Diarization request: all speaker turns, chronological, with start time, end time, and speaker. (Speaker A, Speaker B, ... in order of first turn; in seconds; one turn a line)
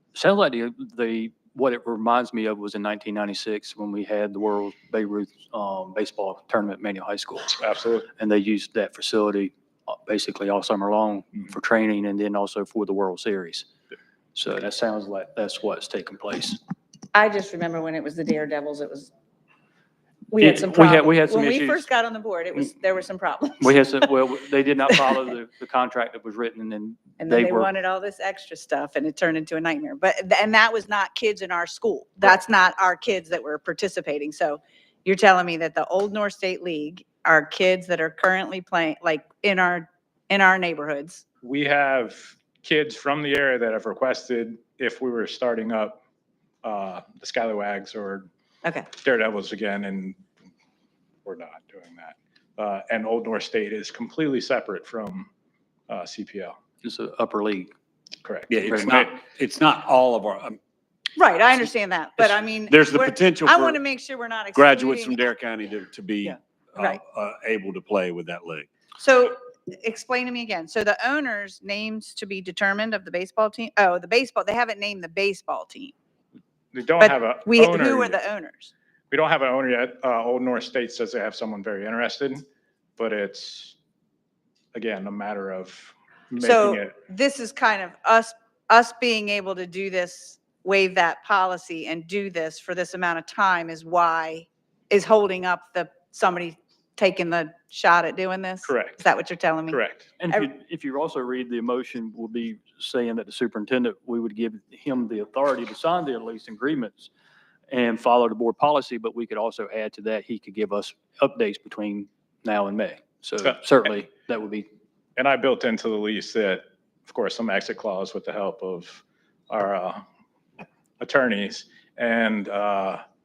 Speaker A: 0.1-7.5
Speaker B: 7.6-8.1
Speaker A: 8.2-13.7
Speaker A: 14.3-16.6
Speaker C: 17.1-19.1
Speaker C: 20.3-24.1
Speaker A: 20.4-21.9
Speaker A: 23.6-27.7
Speaker C: 27.2-41.2
Speaker B: 41.4-46.0
Speaker B: 46.6-48.3
Speaker B: 48.9-50.2
Speaker B: 51.2-55.3
Speaker B: 55.9-56.5
Speaker A: 56.8-57.7
Speaker B: 58.2-59.1
Speaker D: 58.5-60.6
Speaker C: 61.2-65.2
Speaker D: 62.2-63.8
Speaker D: 64.5-68.7
Speaker C: 69.0-75.9
Speaker B: 76.7-78.2
Speaker C: 77.0-78.7
Speaker B: 79.1-82.4
Speaker B: 83.0-83.8
Speaker B: 84.7-86.9
Speaker C: 86.4-100.5
Speaker B: 98.7-99.0
Speaker B: 99.7-100.0
Speaker A: 100.2-107.1
Speaker A: 107.7-114.7
Speaker B: 115.2-120.0
Speaker B: 121.0-123.0